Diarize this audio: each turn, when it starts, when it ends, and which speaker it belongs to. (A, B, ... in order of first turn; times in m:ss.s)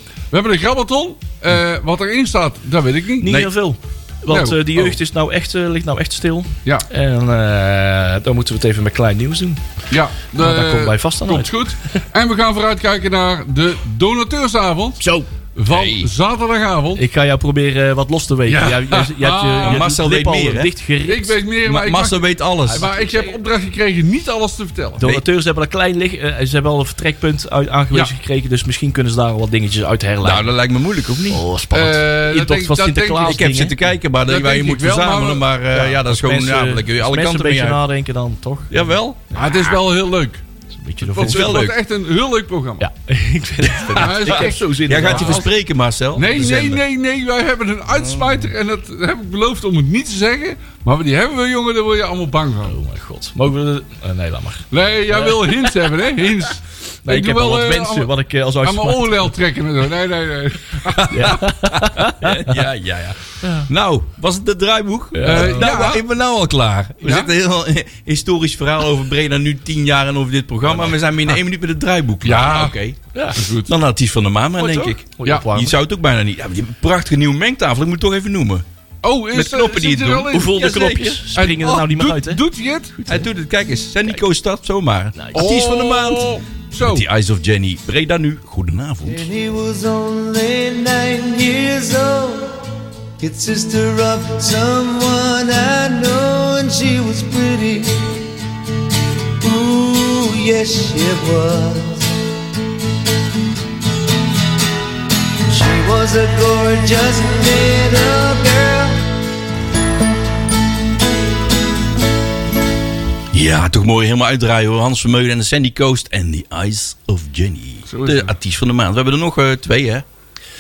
0:00.3-0:03.5 A
0:03.2-0:09.6 B
0:04.3-0:05.0 A
0:09.9-0:15.0 A
0:10.4-0:11.5 B
0:15.6-0:17.0 A
0:15.7-0:16.1 C
0:17.0-0:21.4 B
0:18.5-0:19.8 A
0:19.6-0:20.7 C
0:21.1-0:25.0 A
0:21.6-0:22.9 C
0:22.7-0:23.4 B
0:25.0-0:30.5 B
0:30.2-0:31.4 C
0:31.3-0:33.8 B
0:31.7-0:33.4 A
0:33.2-0:37.8 C
0:34.3-0:35.5 A
0:35.7-0:38.9 B
0:38.7-0:39.4 C
0:39.4-0:40.4 A
0:40.7-0:41.6 B
0:41.1-0:41.8 C
0:41.2-0:42.9 A
0:42.8-0:45.4 B
0:43.8-0:46.8 C
0:43.9-0:45.5 A
0:46.2-0:52.7 A
0:52.7-0:56.2 B
0:54.7-1:01.4 A
0:57.0-0:59.3 B
1:01.0-1:13.0 C
1:01.1-1:02.6 B
1:03.4-1:03.7 B
1:05.1-1:05.8 B
1:05.2-1:06.0 A
1:07.0-1:07.3 A
1:12.2-1:12.8 A
1:13.1-1:13.4 B
1:13.3-1:13.7 A
1:13.6-1:18.6 C
1:14.6-1:15.8 B
1:19.0-1:20.6 A
1:19.3-1:21.2 C
1:20.3-1:22.4 B
1:21.3-1:23.0 A
1:23.0-1:23.3 B
1:23.1-1:29.3 C
1:25.2-1:25.5 B
1:25.4-1:27.0 A
1:29.0-1:32.6 D
1:33.2-1:38.2 D
1:39.4-1:42.1 D
1:45.5-1:49.0 D
1:53.3-2:00.0 C
1:57.9-1:58.3 A